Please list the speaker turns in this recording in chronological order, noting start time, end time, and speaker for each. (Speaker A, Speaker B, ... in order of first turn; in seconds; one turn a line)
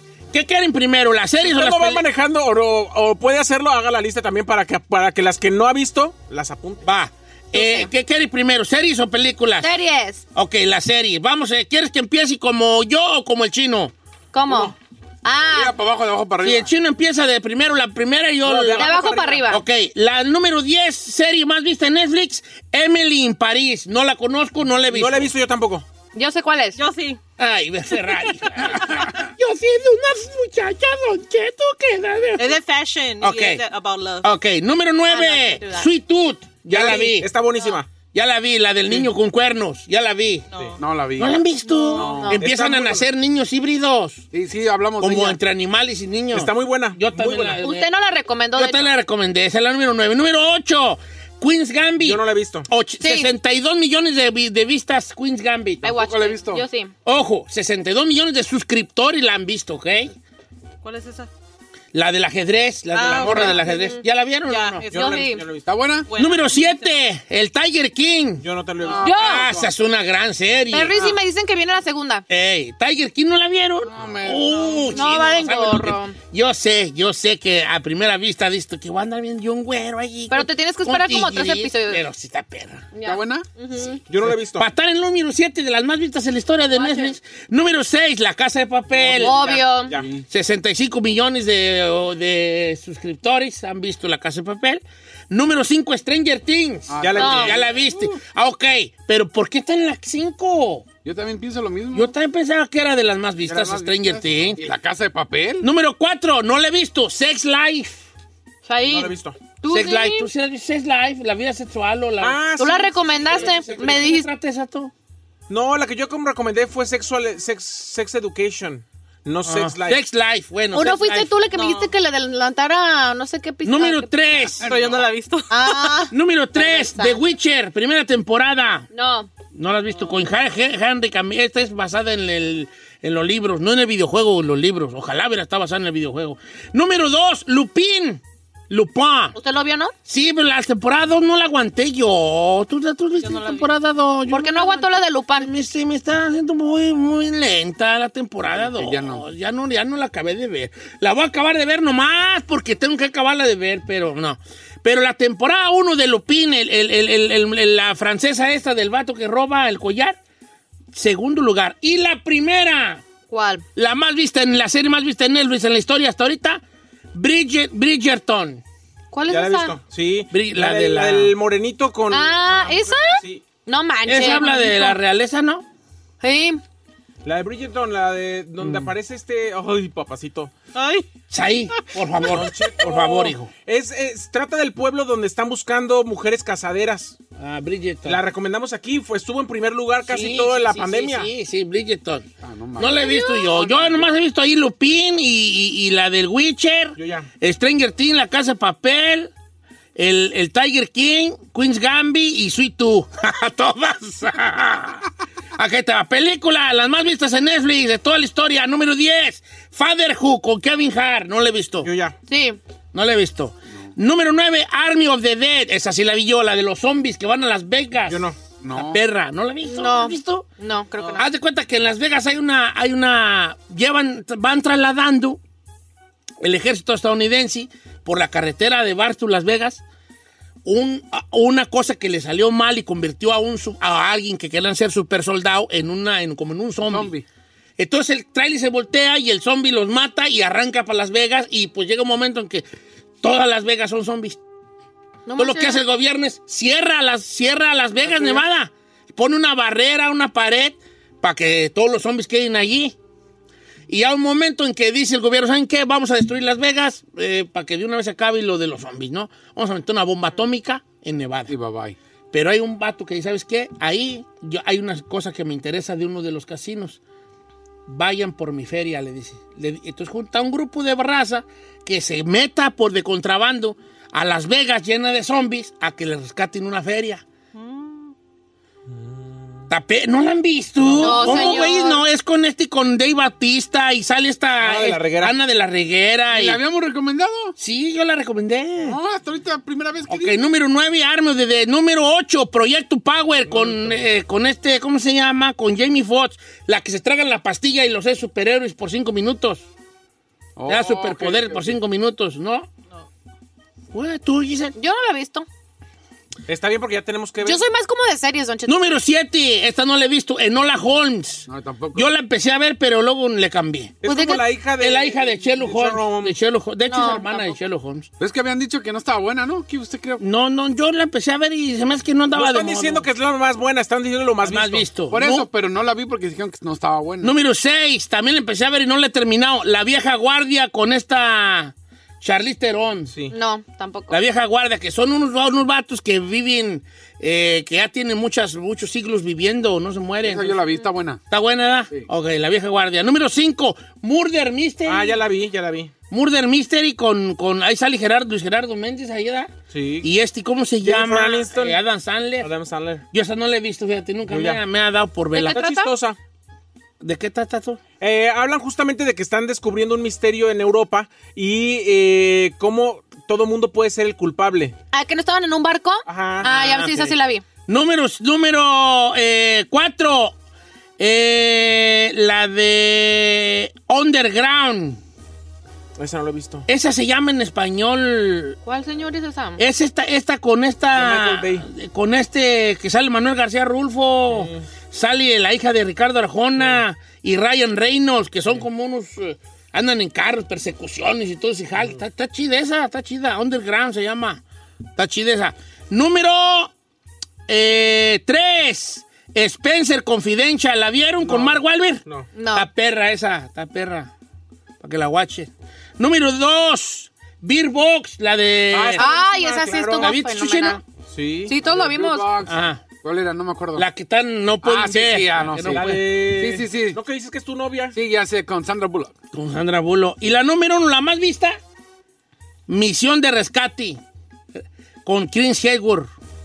Speaker A: 0.3-2.0
Speaker B: 1.4-6.8
Speaker A: 6.8-9.7
Speaker C: 7.5-7.9
Speaker C: 9.6-10.2
Speaker A: 10.3-13.9
Speaker C: 14.3-15.7
Speaker B: 14.5-14.7
Speaker D: 15.4-16.7
Speaker A: 16.4-18.9
Speaker B: 18.4-19.5
Speaker C: 18.8-19.6
Speaker A: 19.5-25.3
Speaker B: 24.9-25.9
Speaker C: 26.1-26.8
Speaker E: 26.8-27.2
Speaker A: 27.4-32.6
Speaker E: 32.4-34.3
Speaker A: 33.2-33.6
Speaker A: 34.2-37.3
Speaker E: 35.1-35.8
Speaker C: 35.4-35.7
Speaker B: 36.7-37.9
Speaker A: 38.1-40.5
Speaker E: 40.5-40.8
Speaker D: 40.8-41.4
Speaker A: 41.2-44.2
Speaker E: 41.6-42.3
Speaker D: 41.9-42.3
Speaker C: 42.1-42.4
Speaker B: 42.4-43.0
Speaker D: 44.3-45.4
Speaker A: 45.0-47.9
Speaker B: 46.3-47.6
Speaker C: 47.6-48.9
Speaker A: 48.5-55.9
Speaker B: 52.0-52.7
Speaker C: 53.0-53.3
Speaker C: 55.8-56.9
Speaker D: 55.8-56.6
Speaker A: 57.0-60.1
Speaker E: 60.8-61.3
Speaker A: 61.9-64.9
Speaker E: 62.9-63.7
Speaker C: 63.2-64.0
Speaker B: 63.3-63.5
Speaker E: 64.5-65.3
Speaker B: 64.9-65.7
Speaker C: 64.9-65.4
Speaker D: 65.7-66.1
Speaker E: 66.1-67.0
Speaker A: 66.1-68.4
Speaker B: 68.4-69.6
Speaker E: 68.8-69.3
Speaker C: 69.0-69.5
Speaker A: 69.2-71.0
Speaker C: 70.7-72.2
Speaker A: 72.3-82.9
Speaker D: 73.8-74.8
Speaker C: 74.9-76.2
Speaker C: 80.3-82.0
Speaker C: 82.9-84.0
Speaker D: 83.0-83.5
Speaker B: 84.1-84.7
Speaker A: 84.2-89.5
Speaker C: 86.7-87.1
Speaker B: 88.9-90.1
Speaker C: 89.1-89.9
Speaker A: 90.3-100.9
Speaker D: 96.9-98.1
Speaker B: 97.0-97.8
Speaker C: 97.2-97.5
Speaker D: 101.0-102.1
Speaker A: 101.9-104.6
Speaker D: 103.4-105.7
Speaker A: 105.6-108.0
Speaker C: 108.6-110.3
Speaker B: 108.8-109.4
Speaker A: 109.7-112.4
Speaker B: 112.2-114.0
Speaker C: 112.6-114.3
Speaker A: 113.0-114.9
Speaker B: 115.5-120.0
Speaker A: 119.4-121.9
Speaker C: 120.7-124.5
Speaker A: 123.6-124.7
Speaker E: 124.6-126.1
Speaker D: 124.6-125.0
Speaker C: 125.5-127.2
Speaker A: 126.1-128.9
Speaker C: 128.9-129.3
Speaker A: 129.5-139.3
Speaker C: 139.3-139.9
Speaker A: 140.1-160.2
Speaker E: 143.2-143.7
Speaker C: 144.3-145.5
Speaker D: 148.6-149.2
Speaker A: 160.9-163.0
Speaker C: 163.3-163.6
Speaker A: 163.8-166.6
Speaker A: 167.1-168.6
Speaker C: 169.1-169.8
Speaker B: 169.3-173.4
Speaker A: 170.3-171.3
Speaker C: 172.1-175.0
Speaker A: 174.1-175.6
Speaker C: 176.2-176.6
Speaker B: 177.2-180.5
Speaker A: 178.6-178.9
Speaker E: 180.7-181.1
Speaker A: 181.3-183.5
Speaker B: 182.2-187.2
Speaker A: 187.4-188.2
Speaker B: 188.0-191.3
Speaker A: 190.0-199.3
Speaker D: 192.4-193.1
Speaker C: 192.9-193.7
Speaker B: 197.0-197.3
Speaker A: 199.9-205.0
Speaker A: 205.6-211.9
Speaker B: 211.8-212.1
Speaker C: 212.3-212.6
Speaker A: 212.9-218.2
Speaker B: 218.1-218.4
Speaker D: 218.6-219.0
Speaker A: 218.7-220.4
Speaker C: 219.6-221.3
Speaker A: 221.2-225.4
Speaker A: 226.4-229.8
Speaker A: 230.6-237.1
Speaker D: 236.9-237.2
Speaker A: 237.8-242.6
Speaker A: 243.2-244.4
Speaker C: 245.3-245.8
Speaker A: 245.3-252.9
Speaker B: 248.0-248.4
Speaker A: 253.9-261.5
Speaker D: 261.5-261.9
Speaker A: 262.3-267.0
Speaker A: 267.9-277.2
Speaker B: 278.9-279.6
Speaker A: 279.7-286.6
Speaker B: 280.8-281.6
Speaker C: 281.0-282.0
Speaker B: 284.6-285.3
Speaker D: 286.3-287.5
Speaker A: 287.6-289.0
Speaker D: 288.8-290.4
Speaker A: 290.1-299.6
Speaker D: 300.6-301.8
Speaker A: 300.6-302.7
Speaker A: 303.9-304.7
Speaker C: 304.8-305.5
Speaker B: 306.5-307.6
Speaker C: 307.4-308.8
Speaker A: 308.6-314.0
Speaker D: 311.5-312.1
Speaker B: 314.0-316.3
Speaker C: 314.0-314.4
Speaker A: 314.8-318.1
Speaker C: 316.9-317.3
Speaker D: 318.2-320.2
Speaker A: 320.2-323.1
Speaker B: 322.3-324.9
Speaker A: 324.4-325.4
Speaker D: 325.1-327.3
Speaker A: 327.2-333.1
Speaker B: 333.1-333.3
Speaker C: 333.3-334.2
Speaker A: 334.1-340.6
Speaker D: 340.2-341.2
Speaker A: 341.3-345.2
Speaker B: 344.8-345.9
Speaker A: 346.1-352.5
Speaker B: 349.7-350.1
Speaker B: 350.8-351.8
Speaker B: 352.4-353.0
Speaker A: 353.1-355.6
Speaker B: 354.3-354.6
Speaker B: 355.3-356.2
Speaker C: 355.4-355.9
Speaker A: 357.0-357.8
Speaker B: 358.0-364.7
Speaker C: 364.9-367.4
Speaker B: 366.1-367.1
Speaker A: 367.7-370.3
Speaker A: 371.0-375.0
Speaker B: 376.0-376.6
Speaker A: 376.7-378.6
Speaker C: 378.6-379.6
Speaker A: 379.6-394.4
Speaker B: 380.9-381.6
Speaker B: 384.3-384.6
Speaker A: 394.9-396.7
Speaker A: 397.5-402.0
Speaker B: 401.2-402.3
Speaker C: 402.3-402.7
Speaker A: 402.5-404.1
Speaker A: 404.8-409.1
Speaker B: 408.7-410.1
Speaker C: 408.9-410.8
Speaker A: 410.0-410.8
Speaker B: 411.1-411.6
Speaker C: 411.5-412.3
Speaker D: 411.6-413.8
Speaker A: 412.4-412.8
Speaker A: 413.7-416.0
Speaker D: 414.6-417.0
Speaker B: 415.7-417.9
Speaker D: 417.9-419.1
Speaker A: 419.3-421.6
Speaker A: 422.7-424.0
Speaker A: 425.0-426.1